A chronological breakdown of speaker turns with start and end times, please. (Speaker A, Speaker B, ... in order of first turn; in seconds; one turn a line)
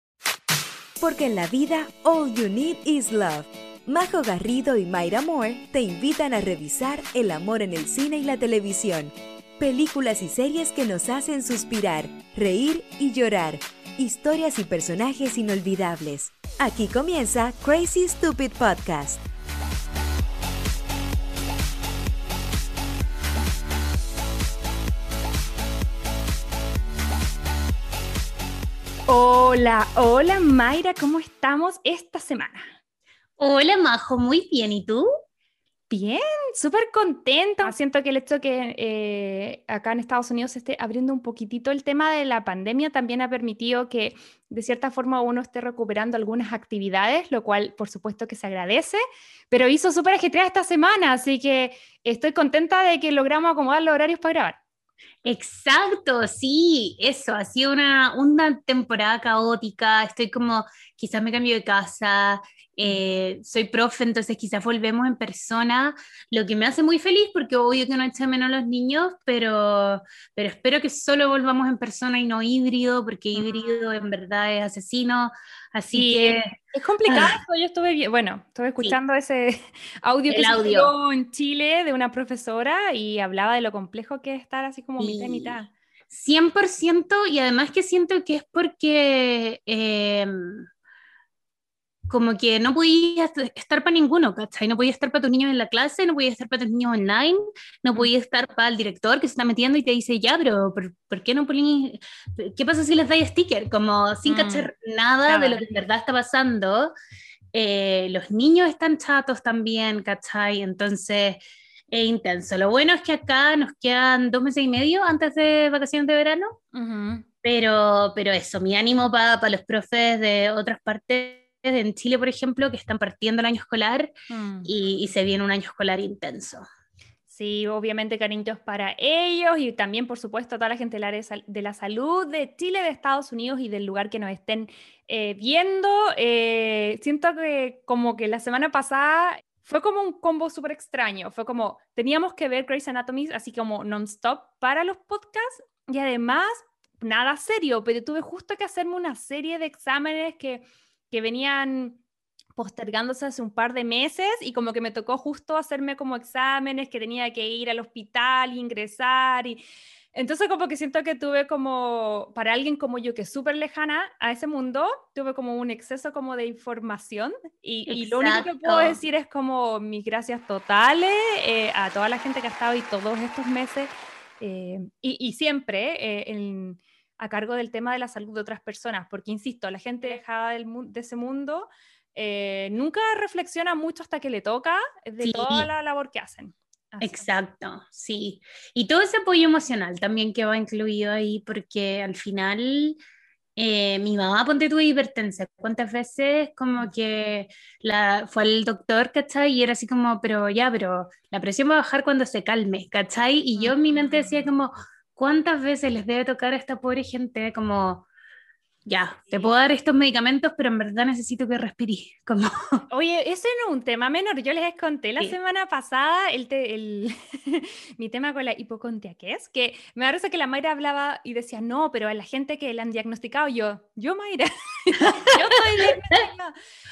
Speaker A: 1.0-19.2
Speaker B: 29.1-32.6
Speaker C: 33.4-35.1
Speaker B: 35.9-54.6
Speaker C: 55.2-76.5
Speaker B: 73.3-73.9
Speaker B: 75.9-85.7
Speaker C: 77.1-77.4
Speaker C: 80.3-80.9
Speaker C: 85.0-85.6
Speaker C: 86.1-90.7
Speaker C: 92.1-106.9
Speaker B: 104.2-104.7
Speaker B: 105.3-105.7
Speaker C: 107.5-116.6
Speaker B: 116.7-117.3
Speaker C: 117.4-124.1
Speaker B: 124.3-124.7
Speaker C: 124.7-126.7
Speaker B: 127.3-152.0
Speaker B: 152.6-159.6
Speaker B: 160.1-187.3
Speaker C: 167.9-169.0
Speaker C: 185.2-185.7
Speaker C: 187.0-193.0
Speaker C: 193.6-208.1
Speaker B: 203.6-204.5
Speaker C: 208.9-212.8
Speaker B: 212.9-226.5
Speaker C: 225.0-225.3